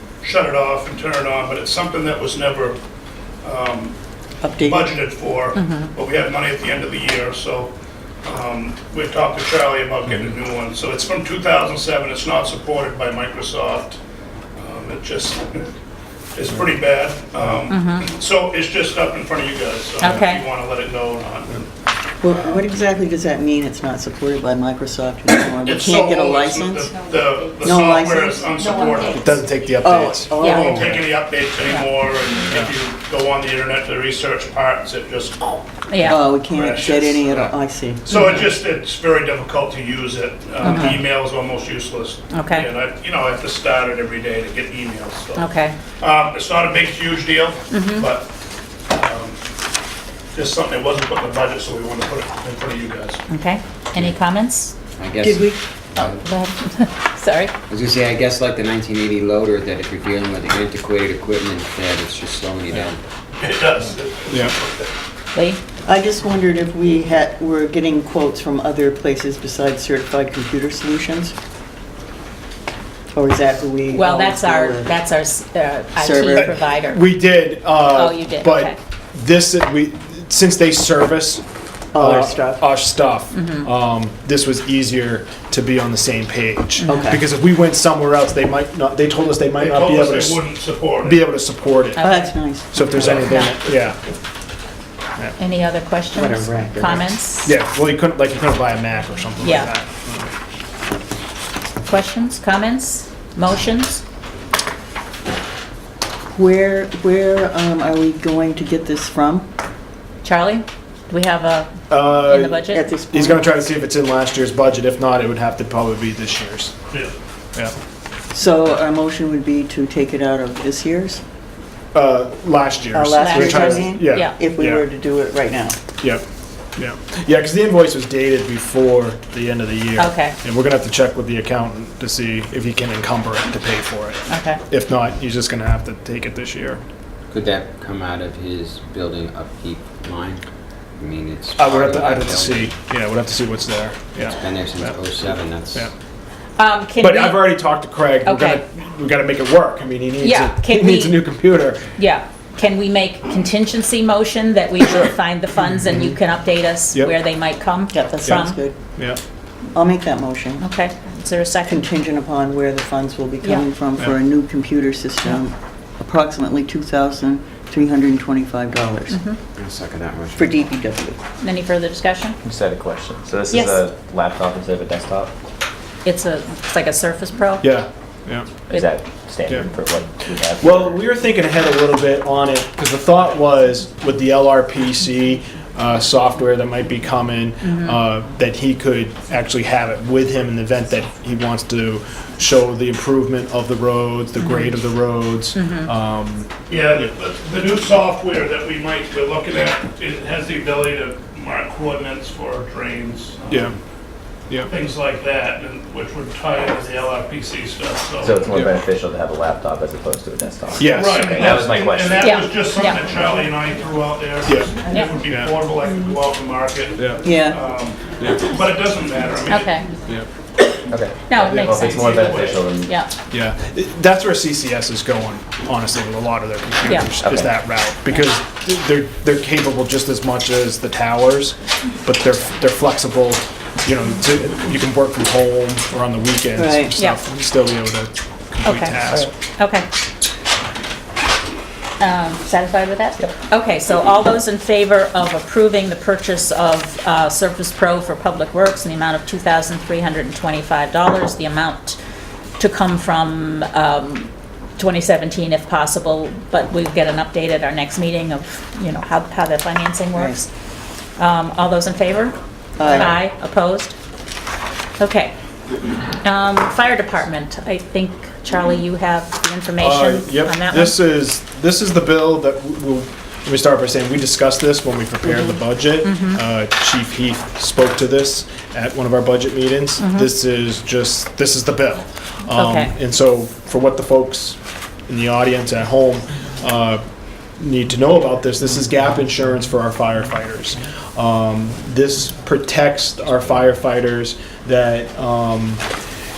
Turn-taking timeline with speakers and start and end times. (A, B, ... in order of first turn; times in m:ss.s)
0:00.2-0:02.8 A
0:03.4-0:04.0 A
0:04.4-0:04.9 B
0:04.6-0:07.7 A
0:05.5-0:05.9 C
0:08.2-0:14.0 A
0:14.6-0:15.7 A
0:16.3-0:21.7 A
0:17.7-0:18.1 C
0:20.0-0:20.4 C
0:22.2-0:27.0 B
0:25.6-0:29.3 A
0:27.6-0:31.0 B
0:29.2-0:30.4 D
0:30.4-0:30.9 C
0:30.4-0:35.6 A
0:35.9-0:36.4 C
0:36.0-0:38.3 B
0:36.5-0:37.5 A
0:38.1-0:48.3 A
0:38.1-0:38.5 C
0:40.6-0:41.1 C
0:40.6-0:41.0 B
0:42.3-0:42.7 C
0:45.4-0:45.8 C
0:47.7-0:48.1 C
0:48.9-0:49.4 A
0:50.3-0:53.2 A
0:53.3-0:54.7 C
0:55.0-0:56.2 E
0:55.2-0:55.6 B
0:56.0-0:57.5 C
0:57.7-1:03.0 E
1:03.4-1:04.9 A
1:05.3-1:05.6 C
1:05.8-1:11.3 B
1:13.1-1:14.9 B
1:13.9-1:17.1 C
1:16.0-1:16.6 B
1:16.3-1:30.4 D
1:17.8-1:18.8 C
1:21.9-1:22.6 B
1:23.3-1:23.7 C
1:26.8-1:27.2 B
1:29.6-1:31.2 A
1:31.0-1:34.0 D
1:32.0-1:33.6 C
1:32.0-1:32.7 B
1:35.4-1:37.5 C
1:36.1-1:37.1 B
1:37.4-1:40.3 D
1:39.4-1:39.7 C
1:41.8-1:44.0 C
1:46.3-1:49.5 B
1:50.2-1:52.8 C
1:51.9-1:56.7 D
1:52.7-1:53.4 B
1:58.3-2:01.2 B
2:01.9-2:04.8 D
2:02.9-2:05.8 B
2:03.2-2:04.4 C
2:06.8-2:16.8 D
2:10.0-2:10.4 C
2:14.3-2:14.6 C
2:17.3-2:20.4 E
2:21.0-2:22.7 E
2:21.6-2:24.9 D
2:24.3-2:25.9 E
2:26.6-2:27.6 C
2:27.0-2:31.9 D
2:28.2-2:28.6 C
2:30.2-2:31.2 C
2:32.0-2:38.6 C
2:37.9-2:38.7 B
2:38.2-2:39.2 D
2:39.7-2:40.6 B
2:40.6-2:41.8 C
2:41.7-2:49.2 B
2:49.1-2:49.4 C
2:49.6-2:50.6 E
2:50.4-2:51.2 B
2:51.4-2:52.4 C
2:52.4-2:55.3 F
2:56.0-2:57.8 C
2:57.6-2:58.5 D
2:58.7-3:01.0 F
3:00.6-3:17.1 D
3:07.6-3:08.0 C
3:15.5-3:15.9 C
3:16.7-3:23.7 A
3:23.5-3:23.8 D
3:24.6-3:28.4 A
3:28.2-3:32.5 F
3:28.5-3:28.8 D
3:30.8-3:31.7 D
3:30.9-3:39.6 A
3:32.2-3:33.1 C
3:34.4-3:34.7 D
3:34.8-3:35.2 C
3:37.0-3:37.2 D
3:37.2-3:37.6 B
3:39.5-3:39.9 C
3:40.9-3:42.9 F
3:41.3-3:43.1 C
3:41.4-3:41.8 D
3:42.2-3:42.6 A
3:43.3-3:59.3 D
3:46.8-3:47.1 C
3:47.2-3:47.5 F
3:56.6-3:56.9 B
3:58.6-3:59.9 C
4:02.0-4:12.0 C
4:12.6-4:20.5 C
4:21.2-4:24.0 C
4:22.8-4:23.2 B
4:25.0-4:25.3 C
4:26.2-4:31.0 C
4:29.8-4:47.0 D
4:36.0-4:36.4 C
4:40.0-4:40.3 C
4:42.5-4:42.9 C
4:47.6-4:55.8 D